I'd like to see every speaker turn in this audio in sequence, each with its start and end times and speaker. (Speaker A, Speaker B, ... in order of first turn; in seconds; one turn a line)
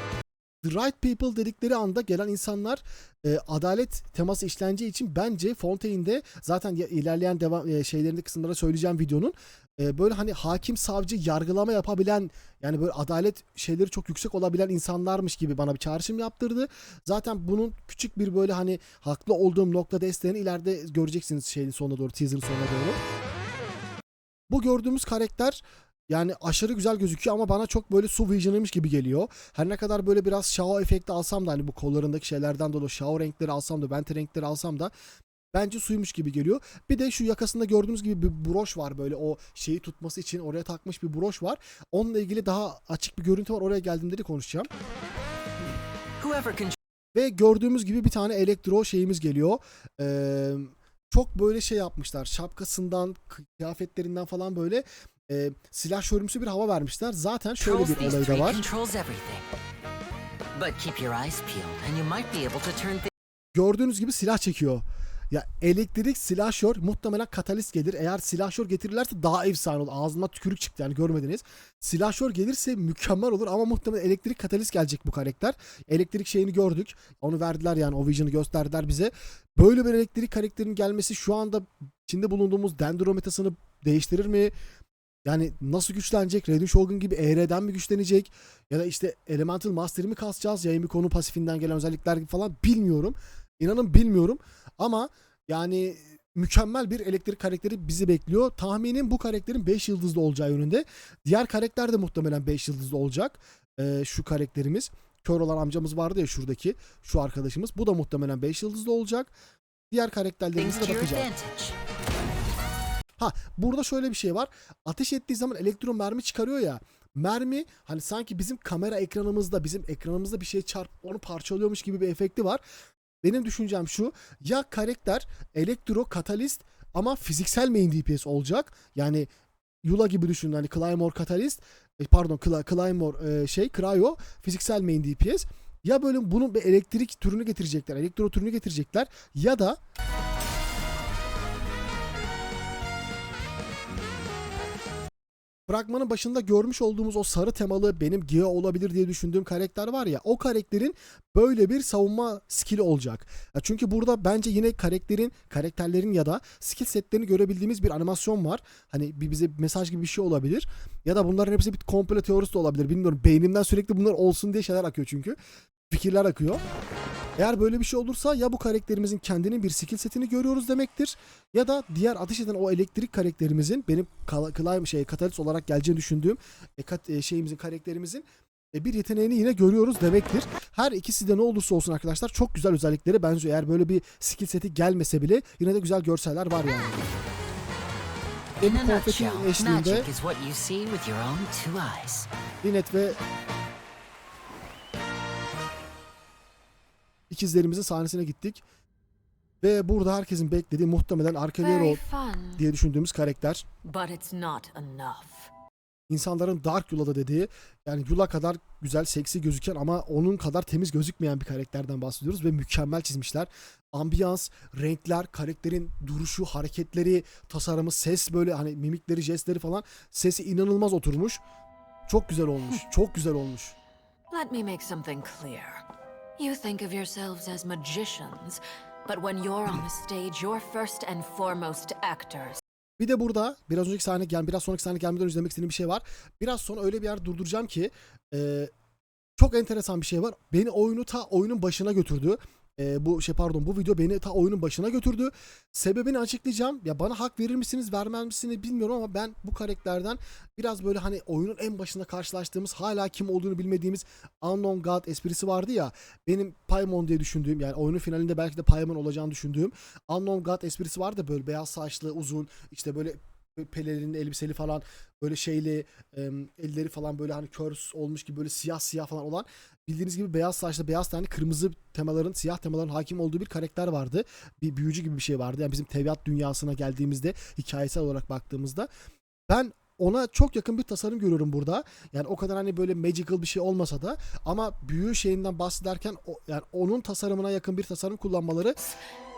Speaker A: 0.6-23.0
Speaker A: 24.5-34.9
Speaker A: 35.5-44.7
Speaker B: 46.2-46.7
Speaker A: 47.1-58.6
Speaker B: 57.6-59.5
Speaker B: 60.5-63.1
Speaker A: 63.5-84.5
Speaker A: 85.2-109.3
Speaker A: 109.9-111.3
Speaker B: 110.5-111.8
Speaker A: 113.2-122.6
Speaker A: 123.2-129.3
Speaker A: 129.8-139.8
Speaker A: 145.7-165.4
Speaker A: 165.9-166.6
Speaker A: 167.4-187.1
Speaker B: 188.6-192.3
Speaker A: 188.6-190.1
Speaker A: 192.6-193.2
Speaker A: 197.3-198.6
Speaker A: 199.6-202.0
Speaker C: 201.6-202.6
Speaker A: 202.5-203.6
Speaker C: 203.8-205.5
Speaker A: 206.1-221.4
Speaker A: 222.1-223.7
Speaker C: 224.3-225.8
Speaker C: 226.4-232.6
Speaker A: 233.0-238.7
Speaker A: 239.4-278.9
Speaker A: 279.5-288.8